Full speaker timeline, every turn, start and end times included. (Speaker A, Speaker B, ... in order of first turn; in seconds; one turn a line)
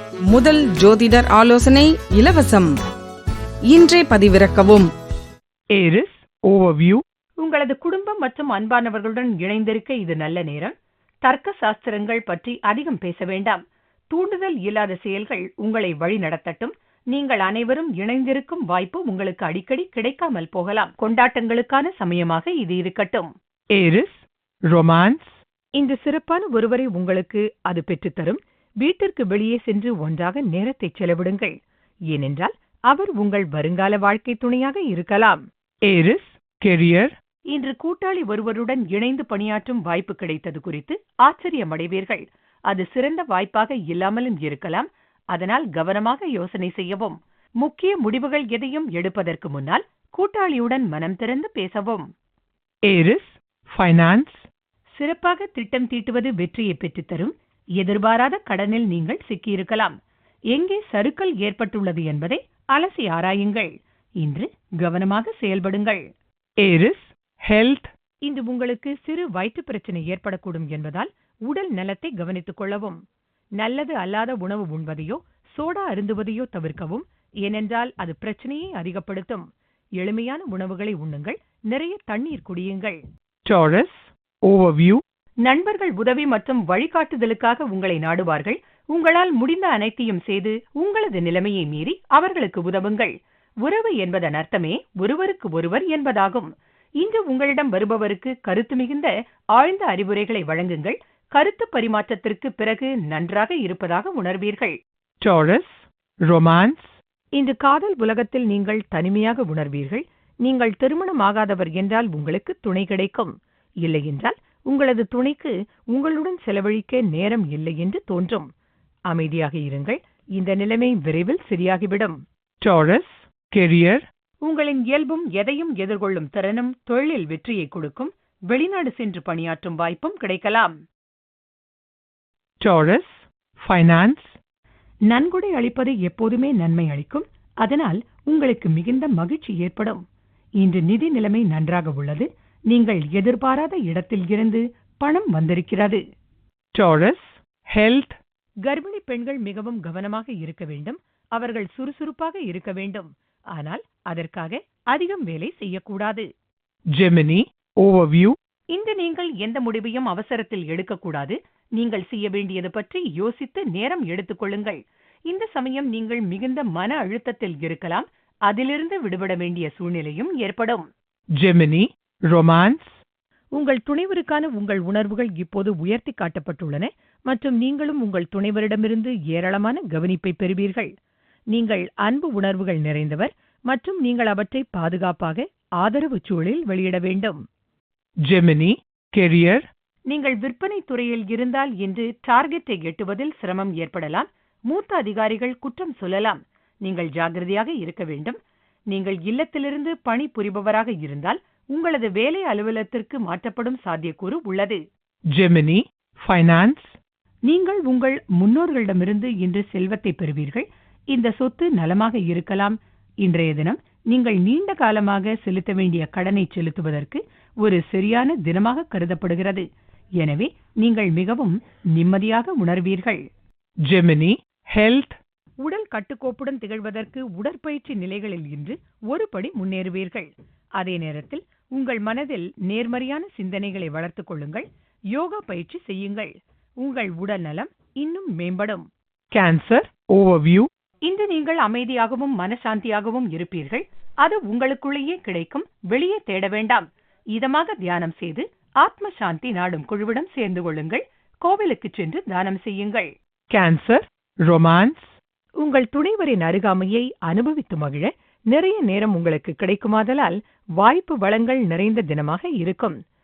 Speaker A: 0.2-2.7
Speaker A: 3.7-4.9
Speaker B: 5.8-7.0
Speaker C: 7.4-10.7
Speaker C: 11.2-23.3
Speaker B: 23.8-25.3
Speaker C: 25.8-31.5
Speaker C: 32.1-35.4
Speaker B: 35.9-37.1
Speaker C: 37.5-52.1
Speaker B: 52.9-54.5
Speaker C: 55.0-59.9
Speaker C: 60.5-66.0
Speaker B: 66.6-67.9
Speaker C: 68.2-73.0
Speaker C: 73.6-79.5
Speaker C: 80.0-83.0
Speaker B: 83.5-85.0
Speaker C: 85.4-93.1
Speaker C: 93.6-104.8
Speaker B: 105.2-106.9
Speaker C: 107.4-118.5
Speaker C: 119.1-122.2
Speaker B: 122.6-124.0
Speaker C: 124.4-130.8
Speaker B: 132.6-134.3
Speaker C: 135.1-140.0
Speaker C: 140.6-146.0
Speaker B: 146.7-148.2
Speaker C: 148.7-156.3
Speaker B: 157.0-158.3
Speaker C: 158.7-164.8
Speaker C: 165.3-170.8
Speaker B: 171.4-173.0
Speaker C: 173.6-180.9
Speaker C: 181.5-187.4
Speaker B: 188.3-189.7
Speaker C: 190.1-198.4
Speaker C: 198.9-204.8
Speaker B: 205.3-206.9
Speaker C: 207.5-219.7
Speaker C: 220.2-223.2
Speaker B: 223.8-225.2
Speaker C: 225.6-238.8
Speaker B: 239.3-240.7
Speaker C: 241.1-253.1
Speaker B: 253.5-255.0
Speaker C: 255.6-263.0